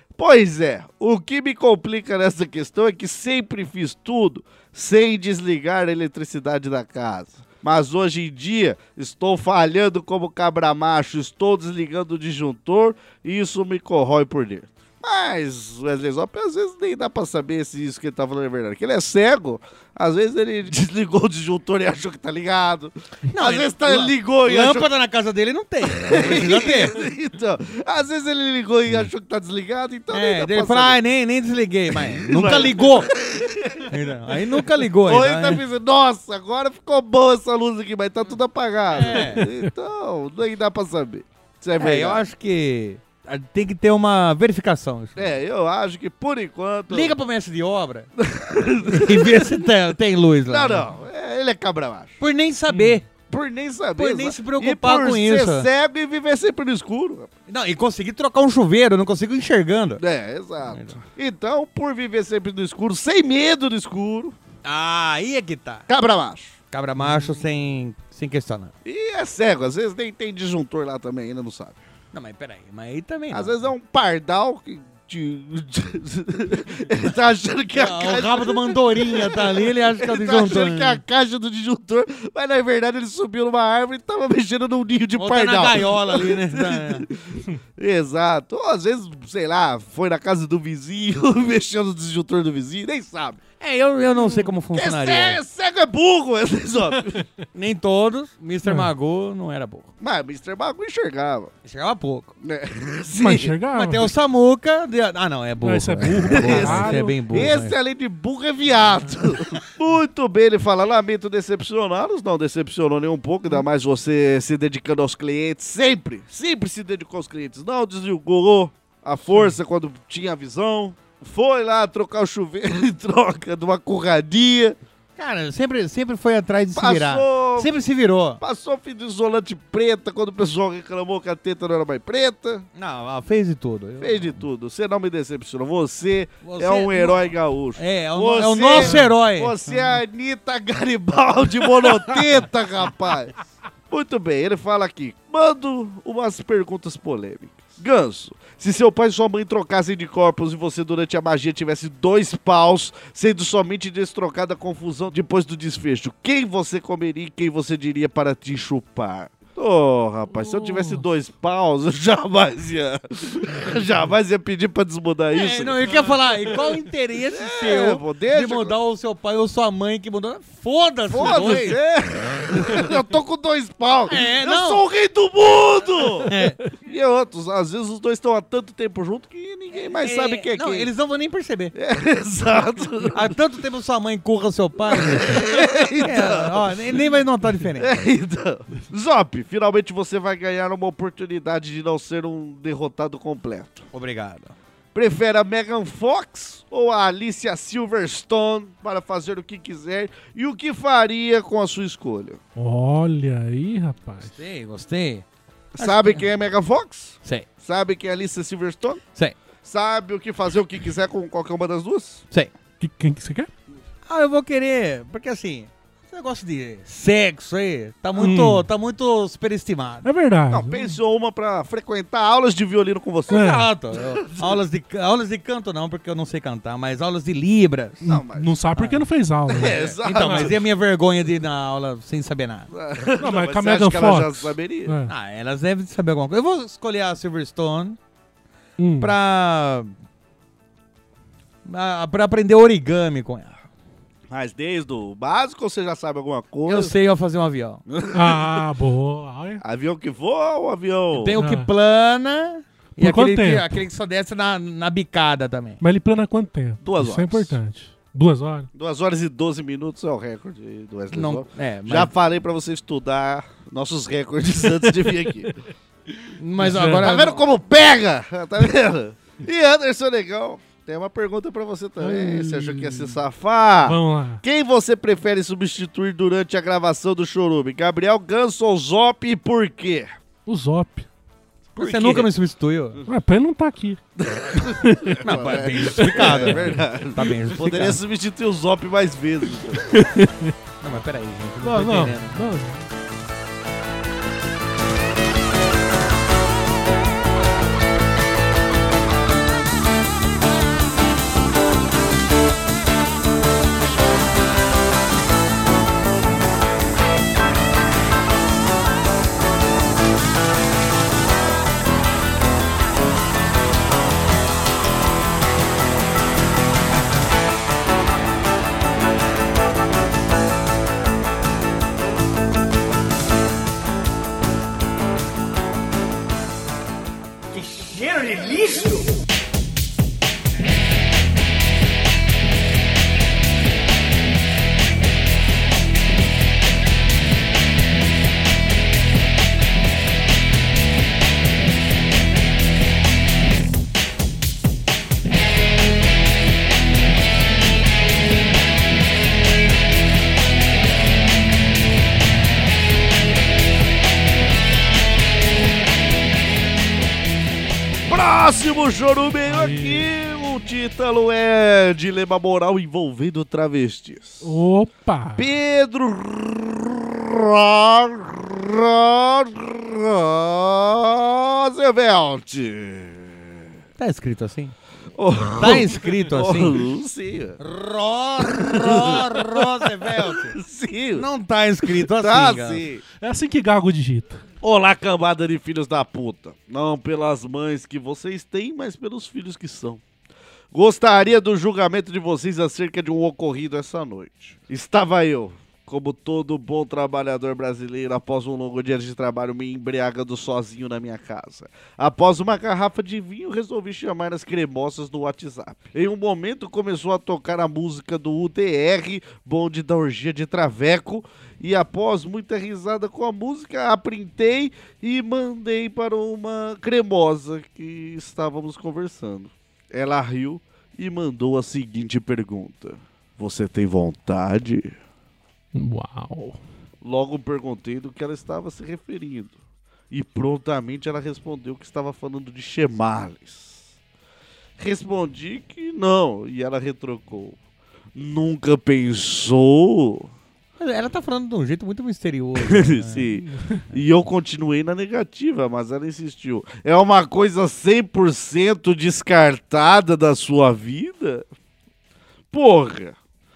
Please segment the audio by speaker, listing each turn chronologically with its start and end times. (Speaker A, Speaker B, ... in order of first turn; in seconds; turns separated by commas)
Speaker A: 0.1-24.9, Speaker B: 23.3-27.0, Speaker A: 25.9-31.0, Speaker B: 30.1-33.1, Speaker A: 31.9-34.0, Speaker B: 33.9-35.6, Speaker A: 34.6-42.2, Speaker B: 38.9-39.5, Speaker C: 39.1-39.7, Speaker B: 41.8-45.3, Speaker A: 45.1-47.1, Speaker B: 46.9-48.1, Speaker A: 48.2-49.7, Speaker B: 48.8-50.9, Speaker A: 50.5-52.2, Speaker B: 52.2-53.1, Speaker C: 52.7-53.0, Speaker A: 53.3-57.3, Speaker B: 54.0-55.7, Speaker B: 57.5-60.0, Speaker A: 60.0-64.3, Speaker B: 60.7-61.0, Speaker B: 64.6-65.9, Speaker A: 65.9-66.5, Speaker B: 66.7-68.7, Speaker A: 68.8-71.8, Speaker B: 72.1-73.5, Speaker A: 73.3-93.4, Speaker B: 77.7-81.0, Speaker B: 85.2-87.1, Speaker B: 93.6-95.4, Speaker A: 94.7-97.2, Speaker B: 97.5-99.9, Speaker C: 98.6-98.9, Speaker A: 100.0-101.5, Speaker B: 101.6-102.3, Speaker A: 102.4-103.5, Speaker C: 103.2-104.1, Speaker B: 103.7-107.8, Speaker C: 105.6-107.2, Speaker A: 106.2-124.8, Speaker B: 125.2-128.4, Speaker A: 126.7-127.7, Speaker A: 128.4-132.7, Speaker B: 132.7-134.4, Speaker A: 134.0-143.3, Speaker B: 136.4-139.6, Speaker C: 138.7-139.1, Speaker A: 143.9-165.8, Speaker C: 160.5-161.0, Speaker B: 165.3-171.8, Speaker A: 167.3-168.7, Speaker A: 171.1-180.9, Speaker B: 174.1-174.8, Speaker B: 176.2-176.6, Speaker B: 179.7-181.7, Speaker A: 181.7-183.3, Speaker B: 183.1-187.9, Speaker A: 184.9-187.0, Speaker A: 187.8-193.8, Speaker B: 193.9-194.5, Speaker A: 194.9-202.4, Speaker C: 202.6-204.4, Speaker B: 204.2-205.2, Speaker A: 205.7-209.0, Speaker B: 205.8-206.2, Speaker A: 209.6-212.2, Speaker C: 212.8-213.5, Speaker B: 214.1-220.1, Speaker C: 218.2-218.7, Speaker C: 220.0-220.9, Speaker A: 220.5-224.6, Speaker B: 223.3-228.0, Speaker C: 223.3-223.7, Speaker C: 228.0-230.6, Speaker A: 228.0-228.6, Speaker B: 228.8-232.7, Speaker A: 229.5-230.6, Speaker A: 232.7-234.9, Speaker C: 233.2-235.1, Speaker B: 235.1-238.0, Speaker C: 238.8-239.1, Speaker B: 239.0-239.9, Speaker B: 241.6-243.6, Speaker A: 244.3-246.9, Speaker B: 246.7-247.8, Speaker A: 247.9-248.6, Speaker C: 248.1-249.6, Speaker A: 249.6-251.3, Speaker B: 251.1-255.8, Speaker C: 251.4-251.7, Speaker C: 253.0-253.8, Speaker C: 255.8-258.7, Speaker A: 256.8-257.6, Speaker A: 258.7-265.5, Speaker B: 261.1-262.1, Speaker B: 266.4-267.4, Speaker C: 266.6-267.1, Speaker A: 267.0-280.1, Speaker C: 272.0-273.2, Speaker C: 273.8-274.4, Speaker C: 280.4-281.1, Speaker B: 281.8-283.0, Speaker C: 281.8-282.2, Speaker C: 283.1-284.0, Speaker A: 284.2-289.9, Speaker C: 284.6-285.2, Speaker B: 285.2-288.0, Speaker C: 286.1-286.8, Speaker C: 289.9-290.5, Speaker B: 290.8-292.4, Speaker C: 291.6-292.8, Speaker B: 327.5-329.1, Speaker A: 358.1-364.5, Speaker C: 359.5-360.1, Speaker C: 364.4-365.4, Speaker A: 365.4-373.7, Speaker B: 374.0-374.7, Speaker A: 375.1-377.6, Speaker B: 375.6-376.8, Speaker B: 377.6-380.6, Speaker A: 378.5-381.2, Speaker B: 381.1-382.8, Speaker A: 381.9-383.0, Speaker C: 383.2-384.4, Speaker A: 384.6-390.0, Speaker A: 390.7-424.9, Speaker C: 425.7-426.6, Speaker A: 427.0-429.6, Speaker A: 430.1-433.8, Speaker A: 434.8-437.6, Speaker A: 438.1-440.3, Speaker B: 440.8-443.3, Speaker A: 442.6-451.4, Speaker C: 443.4-443.8, Speaker A: 452.5-453.1